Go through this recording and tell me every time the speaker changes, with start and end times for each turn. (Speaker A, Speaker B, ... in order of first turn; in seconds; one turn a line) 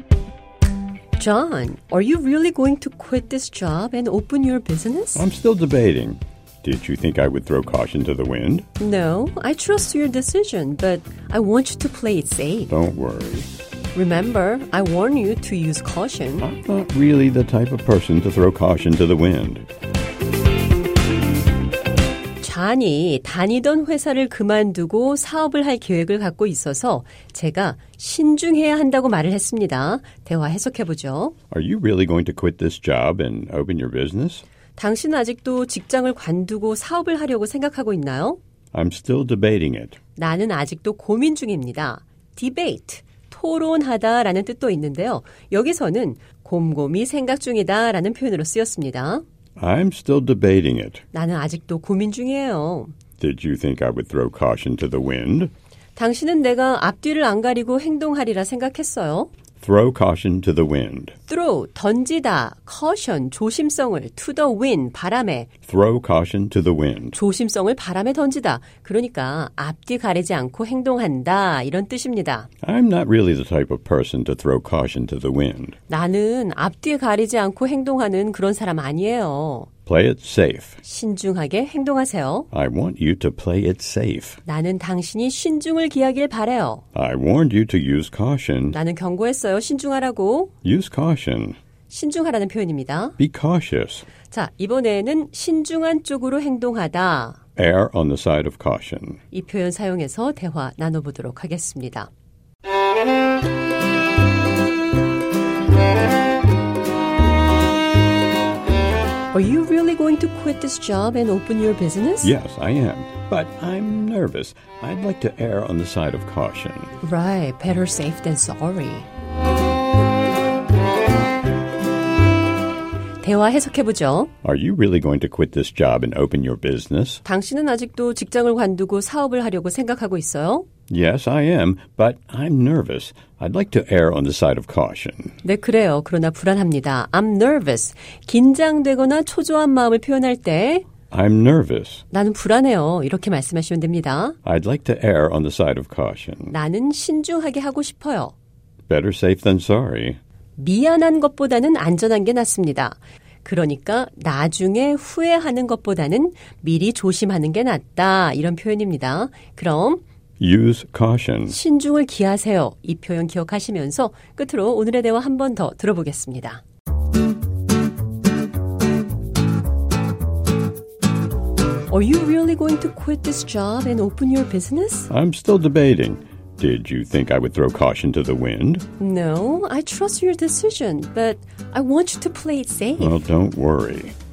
Speaker A: 1.1-5.2
Speaker B: 5.1-8.7
Speaker A: 8.8-12.7
Speaker B: 12.7-13.5
Speaker A: 13.9-16.5
Speaker B: 16.4-19.7
Speaker A: 22.4-31.3
Speaker B: 31.5-34.4
Speaker A: 34.8-38.4
Speaker B: 38.7-40.0
Speaker A: 40.1-49.2
Speaker B: 49.6-51.0
Speaker A: 51.1-52.9
Speaker B: 53.2-55.5
Speaker A: 56.0-59.3
Speaker B: 59.6-61.1
Speaker A: 61.3-65.5
Speaker B: 65.7-67.2
Speaker A: 67.1-72.5
Speaker B: 72.6-75.8
Speaker A: 75.9-79.7
Speaker B: 79.8-80.8
Speaker A: 80.8-82.5
Speaker B: 82.5-84.4
Speaker A: 84.4-86.8
Speaker B: 86.9-88.8
Speaker A: 88.7-90.5
Speaker B: 90.6-91.6
Speaker A: 91.9-93.2
Speaker B: 93.2-94.1
Speaker A: 94.3-97.4
Speaker B: 97.6-99.2
Speaker A: 99.3-102.1
Speaker A: 109.3-112.3
Speaker B: 112.2-116.9
Speaker A: 117.0-119.1
Speaker A: 123.2-124.3
Speaker B: 124.4-127.2
Speaker A: 127.2-130.7
Speaker B: 130.9-135.3
Speaker A: 135.4-140.8
Speaker B: 141.1-142.0
Speaker A: 142.1-144.4
Speaker B: 144.4-146.5
Speaker A: 146.5-148.3
Speaker B: 148.9-150.2
Speaker A: 150.6-160.0
Speaker B: 160.4-161.6
Speaker A: 161.5-166.6
Speaker A: 171.9-175.1
Speaker B: 175.1-178.8
Speaker A: 179.0-183.2
Speaker B: 183.0-184.1